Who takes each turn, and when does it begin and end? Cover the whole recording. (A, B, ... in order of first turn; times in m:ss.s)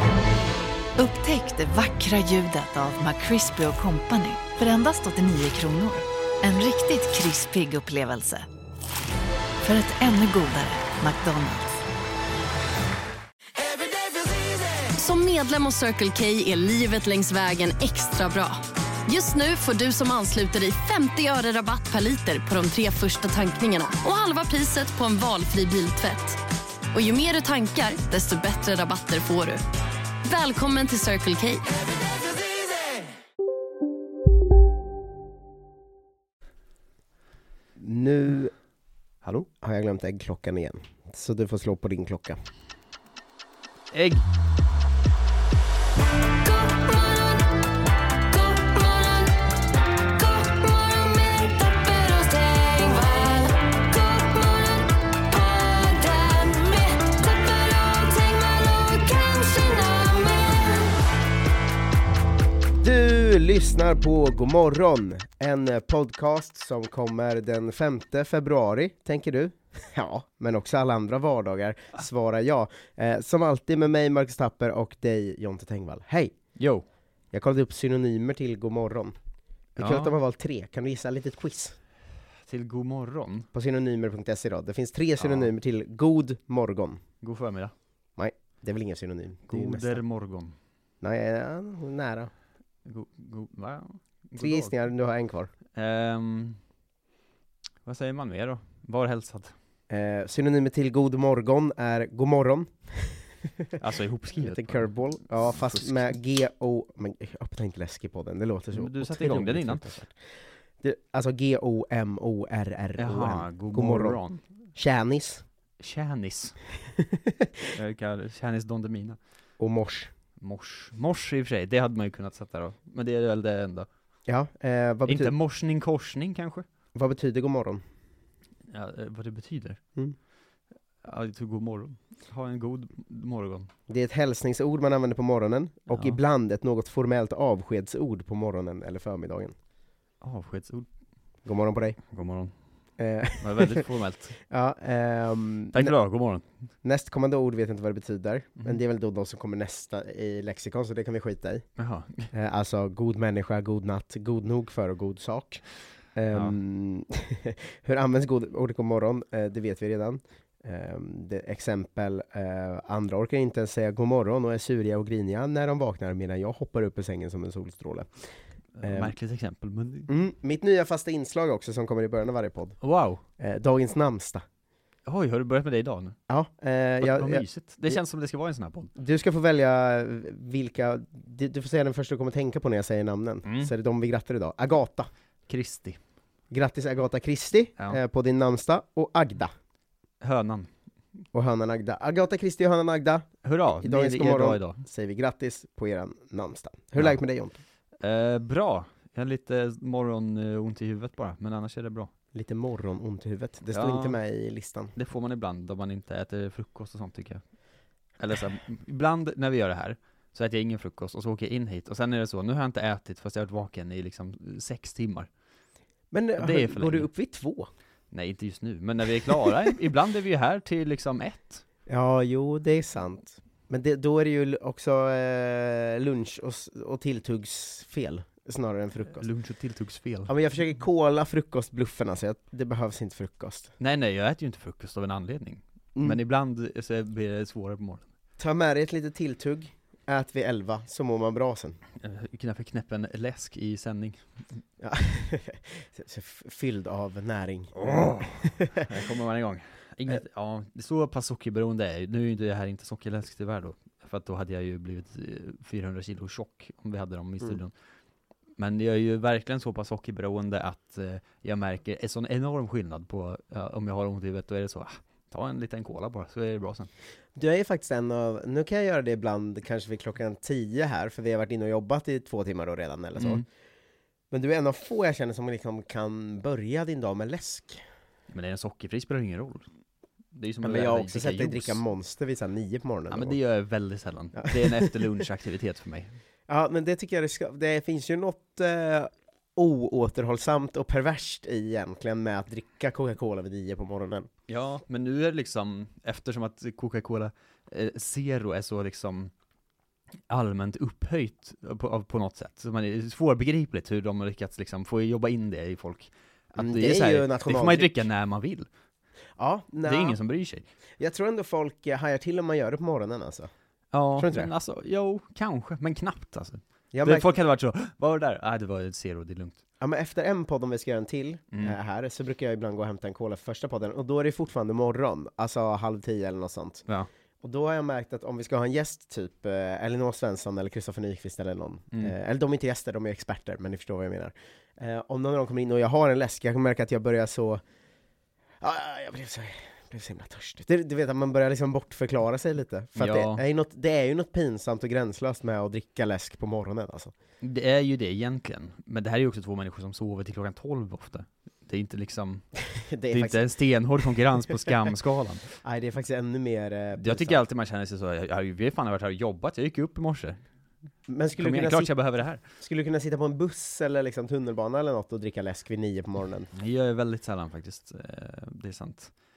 0:01.0-0:08.4 A
0:09.6-0:11.8 A
0:15.0-0:26.4 B
0:26.9-0:29.6 B
0:30.2-0:31.7 B
0:37.8-0:38.5 C
0:39.3-0:42.4 C
0:43.9-0:44.2 D
0:46.4-0:47.5 A
0:48.3-0:49.4 A
0:50.2-1:01.0 A
1:02.8-1:16.3 C
1:16.6-1:16.8 D
1:17.3-1:19.1 C
1:19.8-1:20.2 D
1:19.8-1:21.8 C
1:22.5-1:23.5 D
1:23.5-1:27.0 C
1:25.2-1:25.5 D
1:27.2-1:27.7 D
1:28.2-1:30.0 C
1:29.5-1:30.5 D
1:31.0-1:32.3 C
1:32.8-1:34.7 D
1:34.4-1:35.5 C
1:35.8-1:36.6 D
1:37.8-1:39.5 D
1:39.9-1:43.8 C
1:43.8-1:45.0 D
1:44.4-1:50.1 C
1:45.5-1:46.1 D
1:48.7-1:50.0 D
1:50.8-1:54.2 C
1:53.0-1:54.4 D
1:54.8-1:55.4 C
1:55.8-1:56.6 D
1:57.0-1:57.6 C
1:57.7-1:59.2 D
1:59.6-2:00.1 C
2:00.4-2:03.9 D
2:04.3-2:05.3 C
2:05.0-2:06.6 D
2:06.9-2:07.8 C
2:08.7-2:09.8 D
2:11.0-2:13.7 D
2:13.9-2:19.5 C
2:15.9-2:16.2 D
2:20.2-2:20.9 D
2:21.4-2:22.0 C
2:22.1-2:22.5 D
2:23.0-2:23.8 C
2:23.4-2:24.4 D
2:24.5-2:25.9 C
2:25.7-2:26.4 D
2:26.8-2:31.6 C
2:31.8-2:32.3 D
2:32.3-2:35.6 C
2:36.1-2:48.1 C
2:48.7-2:50.1 D
2:48.8-2:49.1 C
2:50.1-2:52.8 C
2:52.8-2:53.2 D
2:53.4-2:54.4 C
2:55.0-2:56.2 D
2:56.3-2:58.0 C
2:57.0-2:58.9 D
2:59.0-3:05.1 C
3:03.4-3:03.7 D
3:05.5-3:06.0 D
3:06.5-3:09.5 C
3:10.2-3:10.7 D
3:11.3-3:13.2 C
3:13.4-3:14.8 D
3:13.8-3:17.6 C
3:18.0-3:22.1 D
3:22.3-3:24.9 C
3:23.7-3:24.2 D
3:25.0-3:27.4 D
3:28.2-3:35.3 D
3:36.1-3:37.7 C
3:36.4-3:37.1 D
3:38.1-3:41.6 D
3:41.9-3:49.2 C
3:49.1-3:50.3 D
3:50.3-3:53.7 C
3:53.8-3:58.1 D
3:58.4-4:01.8 C
4:02.0-4:04.2 D
4:04.8-4:08.8 C
4:07.8-4:17.7 D
4:18.6-4:26.9 D
4:27.4-4:33.4 C
4:33.2-4:33.4 D
4:34.3-4:37.8 C
4:38.3-4:39.7 D
4:40.3-4:41.8 D
4:40.6-4:43.4 C
4:43.1-4:46.2 D
4:44.4-4:45.0 C
4:46.5-4:54.3 C
4:54.5-4:59.3 D
5:00.3-5:08.7 D
5:06.6-5:07.9 C
5:09.4-5:10.2 C
5:09.8-5:10.6 D
5:11.0-5:13.5 C
5:13.9-5:19.6 D
5:14.2-5:14.5 C
5:16.9-5:17.3 C
5:19.8-5:26.8 C
5:27.4-5:37.6 C
5:38.6-5:47.1 C
5:43.0-5:43.4 D
5:47.4-5:52.5 D
5:52.7-5:53.5 C
5:53.1-5:55.5 D
5:55.6-5:57.4 C
5:57.0-6:00.4 D
6:01.1-6:01.9 C
6:01.4-6:02.4 D
6:02.6-6:06.5 C
6:06.5-6:09.1 D